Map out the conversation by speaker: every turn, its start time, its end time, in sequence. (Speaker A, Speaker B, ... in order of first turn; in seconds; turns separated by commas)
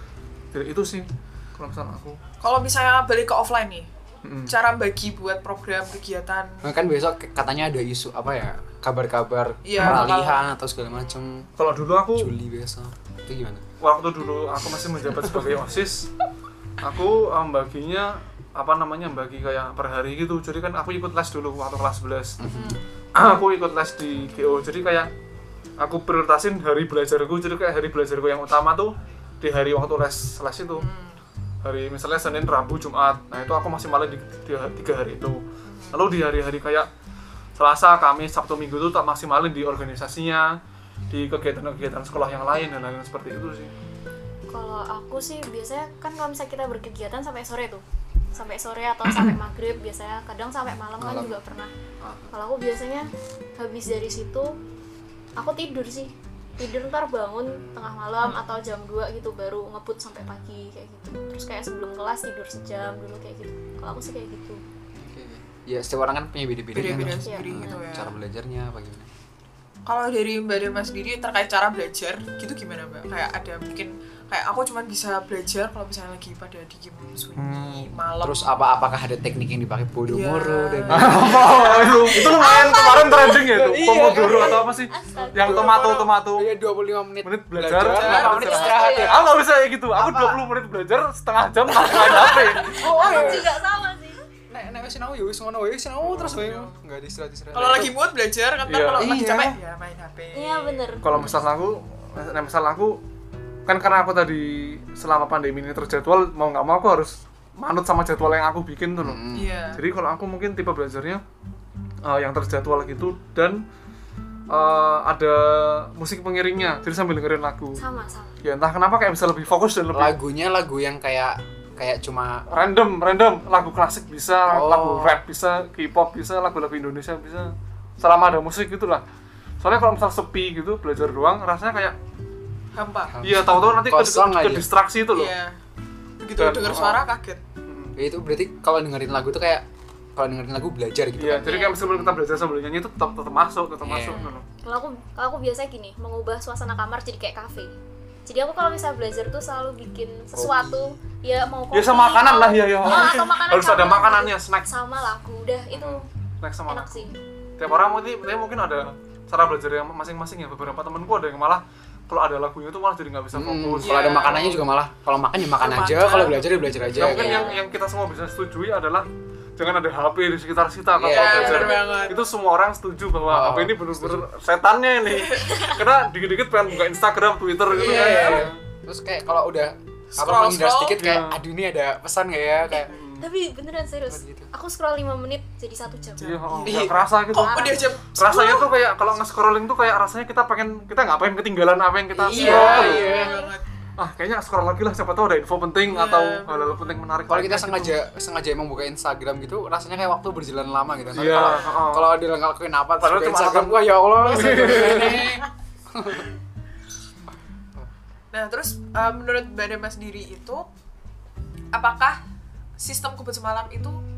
Speaker A: 0.5-2.2, Speaker B: 2.4-3.9, Speaker A: 4.2-4.5, Speaker B: 4.5-6.6, Speaker C: 6.6-11.5, Speaker B: 9.6-10.5, Speaker A: 9.8-10.1, Speaker A: 11.6-12.3, Speaker C: 12.1-13.6, Speaker A: 13.8-16.1, Speaker A: 16.8-22.4, Speaker C: 22.4-22.8, Speaker B: 22.5-22.9, Speaker A: 23.1-25.1, Speaker A: 25.8-30.9, Speaker B: 30.7-31.2, Speaker A: 31.6-36.9, Speaker B: 35.6-36.1, Speaker A: 37.6-40.5, Speaker A: 41.1-43.7, Speaker D: 44.5-47.8, Speaker D: 48.3-51.7, Speaker C: 51.0-51.4, Speaker C: 52.0-52.3, Speaker D: 52.3-54.6, Speaker D: 55.4-64.6, Speaker C: 65.0-69.1, Speaker B: 66.7-68.2, Speaker D: 67.2-67.8, Speaker B: 69.8-78.5, Speaker A: 77.3-77.9, Speaker C: 78.2-84.7, Speaker B: 80.1-82.4, Speaker A: 80.9-86.5, Speaker D: 82.2-83.4, Speaker D: 84.3-85.9, Speaker C: 85.3-89.3, Speaker B: 85.4-86.1, Speaker A: 87.2-92.9, Speaker B: 87.9-89.3, Speaker D: 88.4-89.2, Speaker C: 90.0-90.3, Speaker B: 91.8-93.4, Speaker D: 91.9-94.2, Speaker C: 92.5-93.5, Speaker C: 94.5-97.9, Speaker A: 96.0-96.7, Speaker B: 96.4-96.7, Speaker B: 97.5-100.8, Speaker A: 98.7-99.2, Speaker C: 99.0-99.6, Speaker D: 100.3-101.1, Speaker A: 101.0-103.0, Speaker C: 101.1-101.4, Speaker A: 103.7-111.2, Speaker C: 109.0-109.6, Speaker B: 109.3-109.8, Speaker A: 112.0-113.6, Speaker A: 114.5-117.8, Speaker D: 117.8-118.4, Speaker A: 118.4-120.2, Speaker C: 119.9-122.5, Speaker A: 122.5-129.0, Speaker C: 124.5-125.2, Speaker A: 129.6-132.0, Speaker B: 132.7-133.2, Speaker C: 133.1-134.7, Speaker A: 133.2-135.3, Speaker B: 135.1-135.6, Speaker B: 136.2-137.4, Speaker A: 136.3-137.0, Speaker A: 137.6-138.0, Speaker C: 137.9-142.2, Speaker A: 141.2-144.4, Speaker D: 141.4-141.8, Speaker C: 143.8-144.3, Speaker D: 144.6-147.7, Speaker D: 148.3-156.1, Speaker C: 150.3-150.9, Speaker A: 151.7-154.7, Speaker A: 155.7-164.6, Speaker D: 156.7-157.1, Speaker C: 163.3-167.5, Speaker B: 163.8-164.6, Speaker B: 165.5-166.7, Speaker A: 166.9-178.6, Speaker D: 167.0-167.6, Speaker C: 170.9-171.7, Speaker B: 171.1-172.2, Speaker D: 171.2-172.2, Speaker C: 173.2-174.2, Speaker B: 175.1-175.7, Speaker D: 175.3-175.8, Speaker C: 177.7-182.9, Speaker B: 177.7-178.5, Speaker B: 180.1-181.0, Speaker A: 181.0-181.4, Speaker D: 182.7-186.4, Speaker B: 182.8-183.0, Speaker A: 182.9-183.2, Speaker C: 184.1-184.5, Speaker B: 186.2-188.7, Speaker A: 186.2-193.2, Speaker C: 186.7-187.0, Speaker D: 187.4-187.9, Speaker C: 192.1-193.4, Speaker B: 192.2-193.6, Speaker D: 192.4-193.5, Speaker A: 194.0-198.0, Speaker B: 195.8-196.8, Speaker C: 197.3-206.3, Speaker A: 201.1-202.2, Speaker A: 203.0-205.4, Speaker B: 204.5-205.4, Speaker B: 208.3-210.7, Speaker B: 211.7-212.2, Speaker B: 212.8-214.0